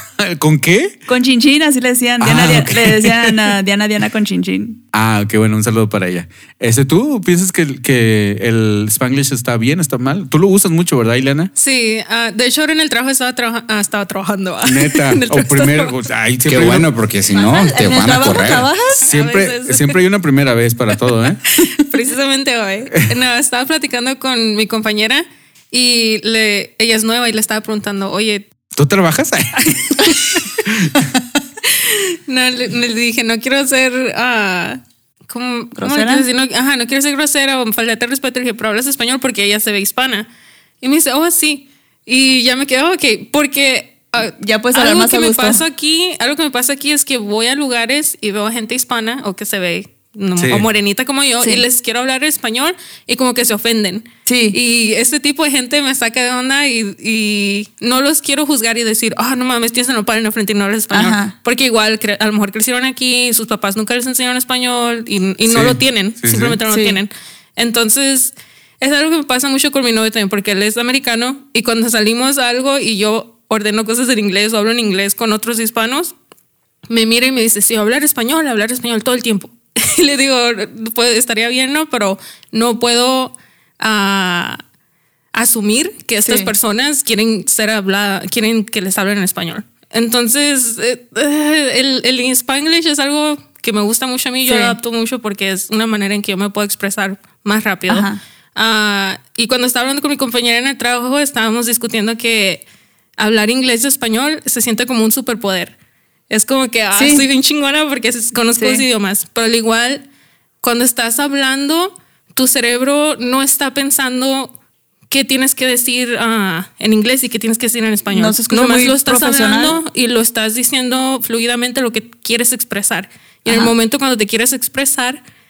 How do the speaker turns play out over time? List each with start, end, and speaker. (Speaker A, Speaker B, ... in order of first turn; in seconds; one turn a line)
Speaker A: 0.2-1.0
Speaker B: 1.1-4.8
Speaker A: 2.2-3.6
Speaker A: 4.9-11.5
Speaker C: 11.6-16.1
Speaker A: 14.6-16.9
Speaker D: 16.4-18.7
Speaker B: 17.3-19.1
Speaker C: 19.0-20.0
Speaker A: 19.0-21.4
Speaker C: 21.5-28.4
Speaker A: 28.7-31.2
Speaker C: 31.7-40.3
Speaker B: 35.8-36.2
Speaker C: 40.8-76.1
Speaker B: 44.3-45.6
Speaker A: 50.4-50.6
Speaker B: 54.2-54.6
Speaker B: 60.9-61.3
Speaker A: 65.5-66.6
Speaker B: 66.7-67.0
Speaker C: 76.9-84.6
Speaker C: 85.3-102.6
Speaker B: 86.2-86.5
Speaker B: 94.4-94.8
Speaker B: 97.9-98.2
Speaker C: 103.2-105.7
Speaker C: 106.3-110.0
Speaker B: 106.9-107.2
Speaker B: 108.6-108.8
Speaker C: 110.6-114.5
Speaker C: 115.1-125.2
Speaker B: 118.1-119.8
Speaker B: 123.5-123.7